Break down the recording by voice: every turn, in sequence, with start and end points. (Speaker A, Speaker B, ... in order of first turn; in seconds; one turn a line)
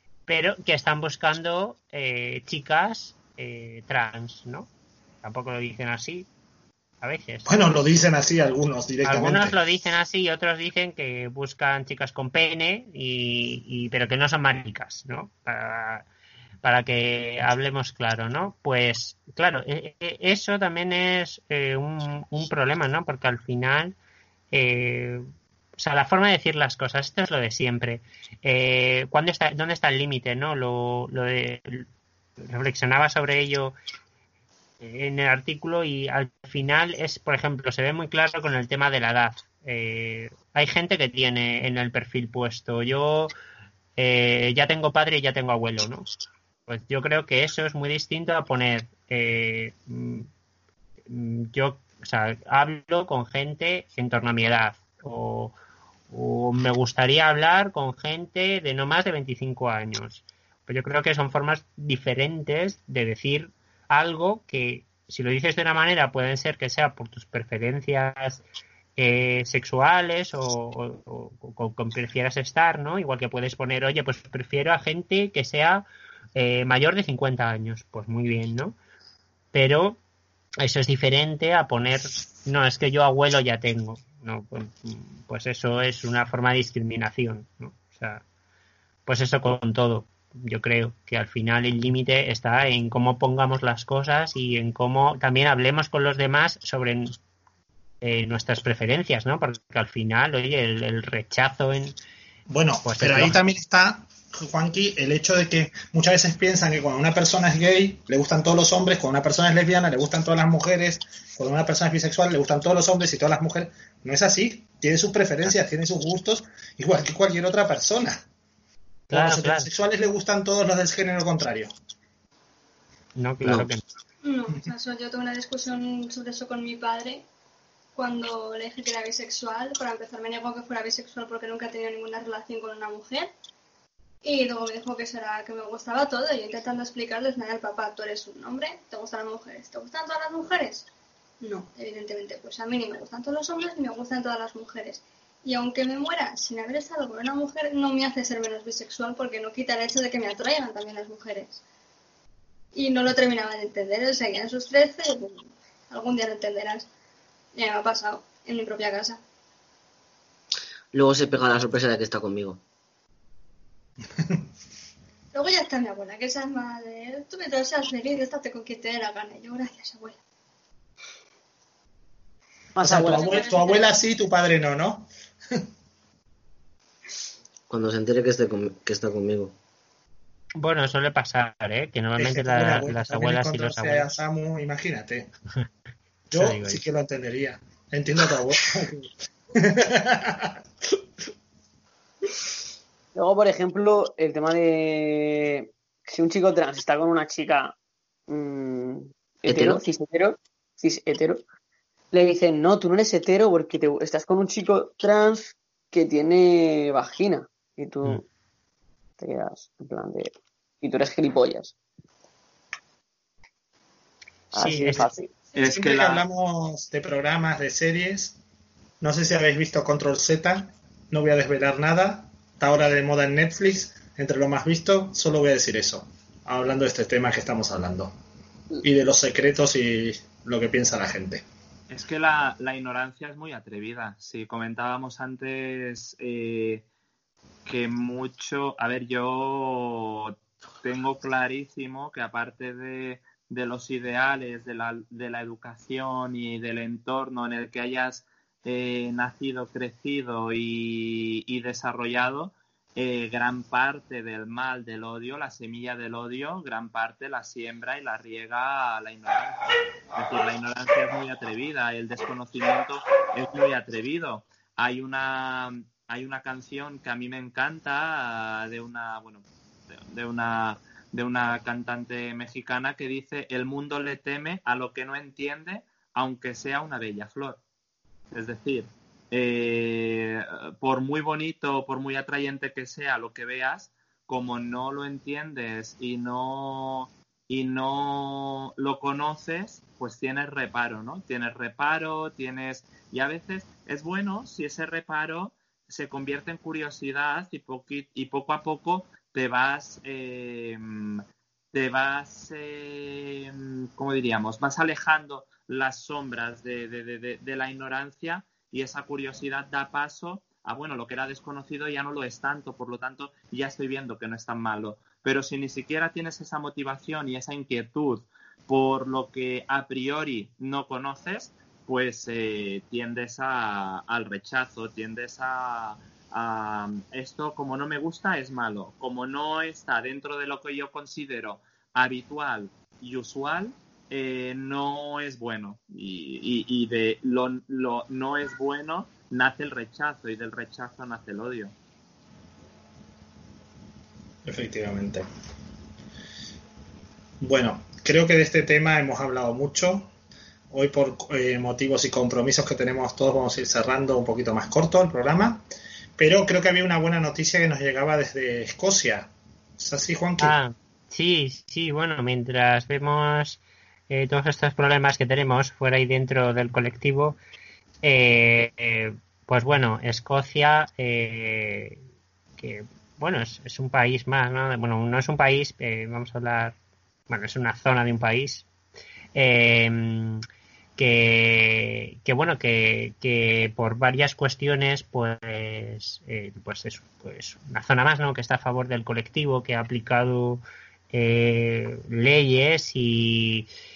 Speaker A: 0.3-4.7
Speaker A: 5.2-6.3
Speaker A: 7.0-7.5
Speaker B: 7.5-9.6
Speaker A: 9.1-16.1
Speaker A: 16.6-24.0
Speaker A: 24.5-25.2
Speaker A: 25.8-31.9
Speaker A: 32.4-33.8
Speaker A: 34.8-43.3
Speaker A: 44.0-46.1
Speaker A: 46.7-50.3
Speaker A: 51.1-55.5
Speaker A: 56.1-68.4
Speaker A: 69.0-78.8
Speaker A: 79.5-80.0
Speaker A: 80.6-88.2
Speaker A: 89.1-97.1
Speaker A: 98.0-102.0
Speaker B: 102.5-118.2
Speaker A: 102.8-103.4
Speaker A: 119.1-119.7
Speaker B: 119.1-121.7
Speaker A: 123.2-123.8
Speaker C: 124.2-127.3
Speaker C: 128.0-133.3
Speaker C: 134.2-140.9
Speaker C: 141.4-151.6
Speaker C: 152.7-156.9
Speaker C: 157.6-159.2
Speaker D: 160.9-162.6
Speaker C: 165.3-170.2
Speaker E: 172.8-173.5
Speaker B: 172.8-175.6
Speaker C: 173.0-174.0
Speaker D: 177.7-179.5
Speaker A: 180.6-184.2
Speaker B: 182.2-185.3
Speaker B: 186.3-189.1
Speaker A: 186.3-186.8
Speaker B: 189.6-190.6
Speaker E: 193.2-197.7
Speaker E: 198.3-201.4
Speaker D: 199.5-199.8
Speaker E: 202.1-208.2
Speaker E: 209.2-211.8
Speaker E: 214.5-215.3
Speaker A: 214.5-215.2
Speaker F: 215.6-216.2
Speaker B: 215.6-218.4
Speaker B: 219.0-228.1
Speaker B: 228.8-231.4
Speaker F: 231.9-236.8
Speaker F: 237.7-259.6
Speaker F: 260.1-269.4
Speaker F: 270.1-277.6
Speaker F: 278.3-341.7
Speaker B: 344.4-345.3
Speaker B: 347.4-350.1
Speaker B: 350.7-355.6
Speaker B: 356.2-360.6
Speaker A: 360.4-367.4
Speaker A: 368.0-372.0
Speaker A: 372.6-376.8
Speaker A: 377.3-378.7
Speaker A: 379.4-380.4
Speaker A: 381.0-393.7